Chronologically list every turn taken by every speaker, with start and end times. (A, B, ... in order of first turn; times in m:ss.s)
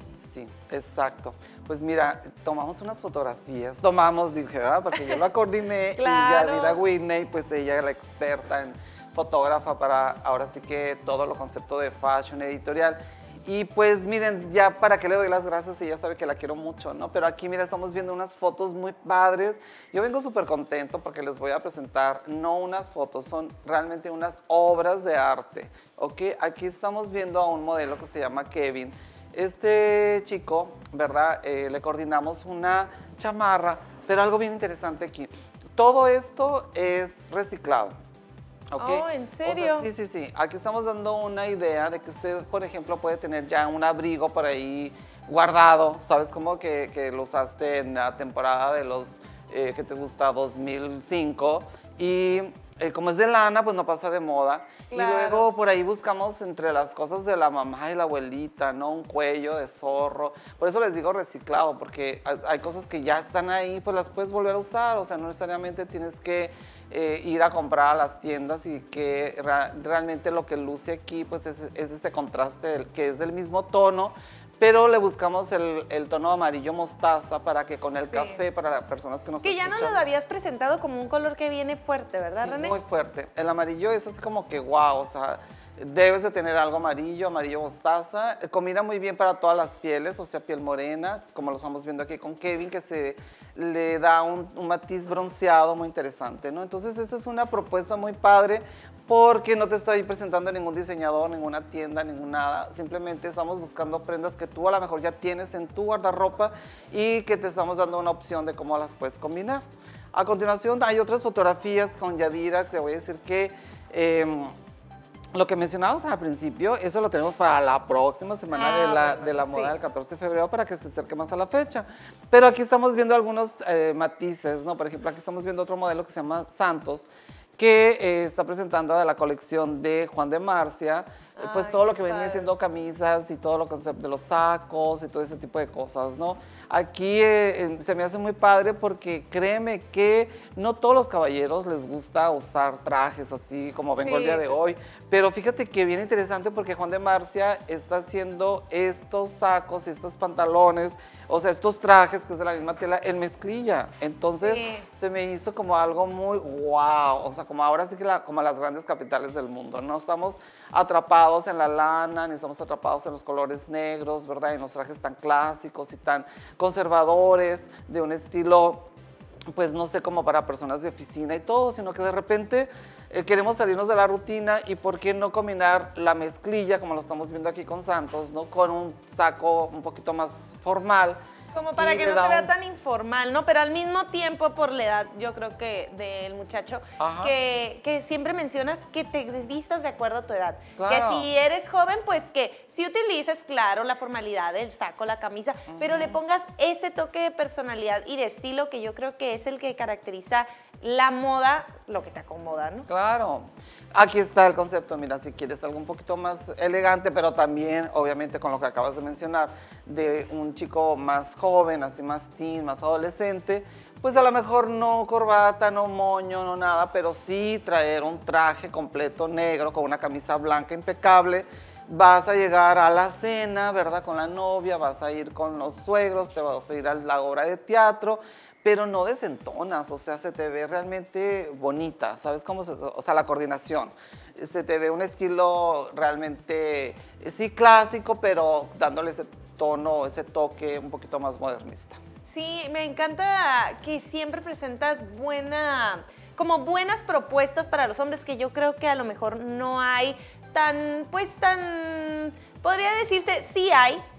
0:00.2-0:37.9 A
0:06.0-0:06.8 B
0:38.7-1:20.0 A
0:38.8-0:39.9 B
0:54.9-0:55.5 B
1:18.1-1:18.4 B
1:19.4-1:22.8 B
1:22.3-1:49.6 A
1:50.1-1:54.5 A
1:55.3-2:48.9 A
1:58.5-1:59.7 B
2:11.4-2:12.5 B
2:24.0-2:24.6 B
2:34.4-2:34.8 B
2:49.5-3:01.2 A
3:01.5-3:22.9 B
3:01.8-3:02.5 A
3:07.0-3:07.3 A
3:10.8-3:11.3 A
3:15.7-3:16.2 A
3:22.9-4:02.0 A
4:02.2-4:14.0 B